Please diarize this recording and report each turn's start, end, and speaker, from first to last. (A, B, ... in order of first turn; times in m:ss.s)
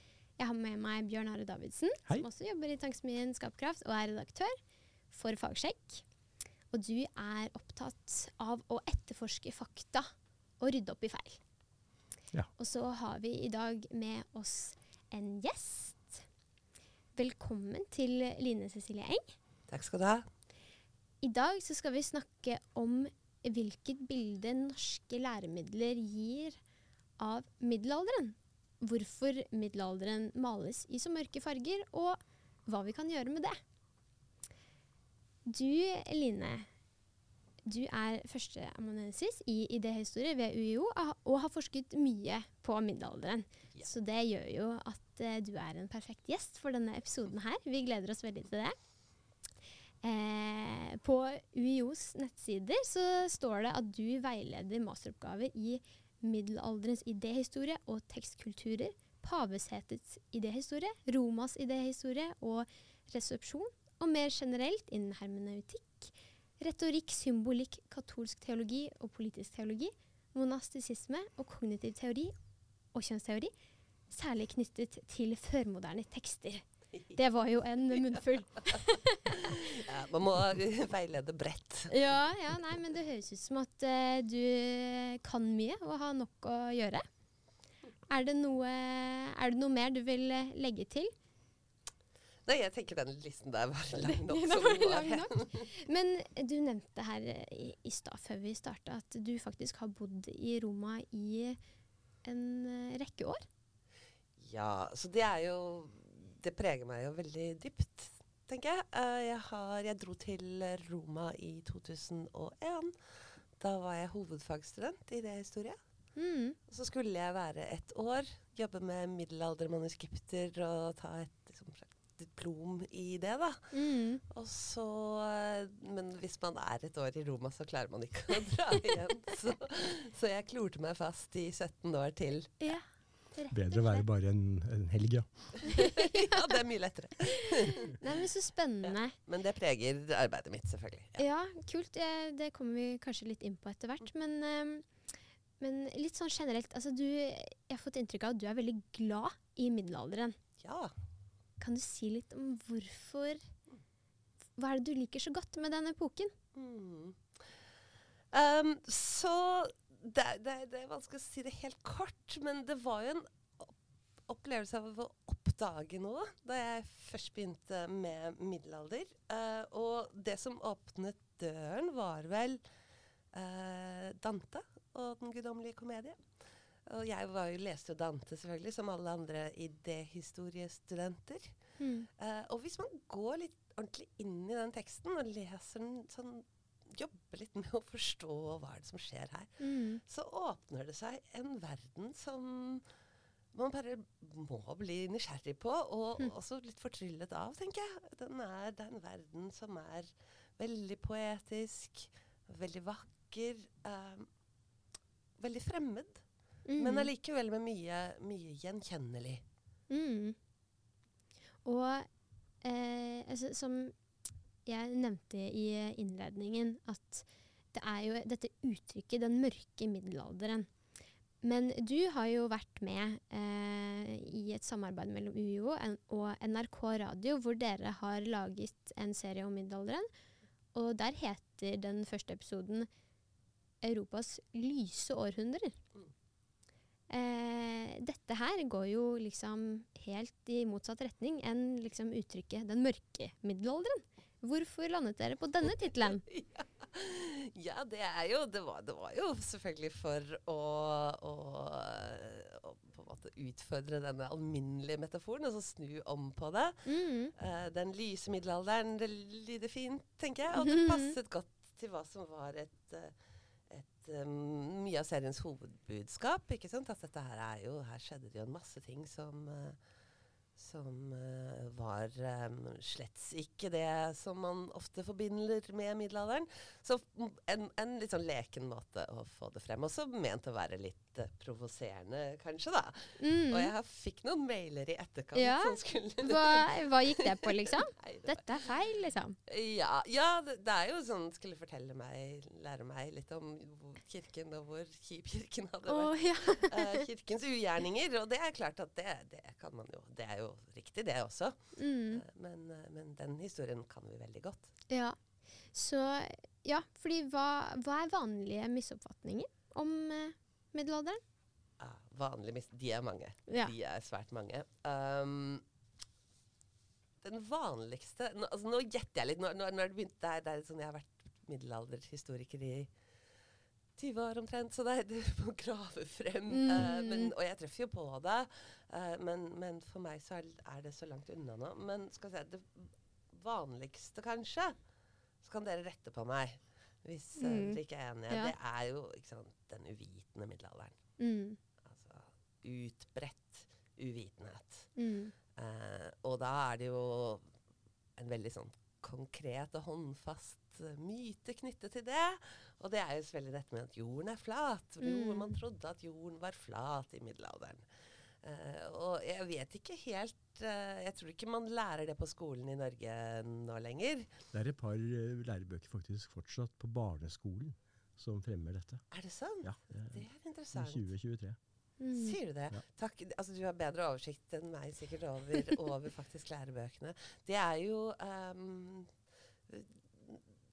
0:00.4-0:04.6 A
0:05.1-0:06.0 A
0:06.7-0:11.4 A
0:12.6-0:16.2 A
0:17.2-0:19.4 A
0:19.7-0:20.3 B
0:21.2-0:26.6 A
0:27.2-0:33.6 A
0:35.5-0:36.7 A
0:37.7-0:48.8 A
0:50.0-1:12.3 A
1:12.9-1:13.5 A
1:14.1-1:19.6 A
1:16.9-1:17.2 B
1:19.4-1:22.6 B
1:21.9-1:27.0 A
1:28.1-1:31.1 A
1:32.5-1:35.7 B
1:34.0-1:41.6 A
1:42.2-1:43.4 A
1:44.4-1:55.8 B
1:56.2-1:56.6 A
1:56.7-2:03.7 B
2:03.7-2:04.2 A
2:04.2-2:12.8 B
2:13.4-2:14.1 A
2:13.5-2:15.6 C
2:15.6-2:18.0 B
2:15.7-2:16.6 A
2:17.4-2:19.2 A
2:18.8-2:21.2 B
2:21.2-2:30.4 A
2:30.6-2:30.9 B
2:31.6-2:33.5 A
2:34.6-2:36.3 A
2:36.5-2:37.5 B
2:38.3-2:43.7 B
2:44.3-2:52.6 B
2:53.3-2:56.2 B
2:56.9-3:01.6 B
3:01.8-3:02.1 A
3:02.2-3:12.9 B
3:09.6-3:10.0 A
3:13.5-3:24.3 B
3:25.4-3:26.2 B
3:26.7-3:27.1 A
3:26.8-3:29.4 B
3:29.9-3:30.4 A
3:31.6-3:32.1 A
3:32.6-3:33.9 A
3:34.7-3:40.7 A
3:41.4-3:50.1 A
3:50.7-3:52.9 A
3:53.8-3:55.8 A
3:57.1-4:06.2 A
4:06.2-4:23.1 B
4:16.9-4:17.3 A
4:20.6-4:21.1 A
4:23.7-4:29.8 B
4:30.6-4:48.7 B
4:43.2-4:43.7 A
4:45.4-4:49.4 A
4:49.5-5:04.8 B
4:55.9-4:57.1 A
5:01.8-5:02.2 A
5:04.9-5:05.2 A
5:05.7-5:11.2 A
5:11.8-5:15.6 B
5:13.5-5:13.7 A
5:17.2-5:22.9 B
5:24.0-5:34.8 B
5:26.5-5:27.3 A
5:35.4-5:41.0 B
5:37.4-5:38.5 A
5:41.2-5:41.6 A
5:41.8-5:44.9 B
5:45.0-5:45.3 A
5:45.6-5:47.5 B
5:48.2-5:57.8 B
5:55.0-5:55.5 A
5:58.4-6:04.4 B
6:04.5-6:09.0 C
6:09.1-6:11.1 B
6:09.6-6:11.6 C
6:12.0-6:12.4 A
6:12.1-6:19.1 B
6:19.7-6:20.6 B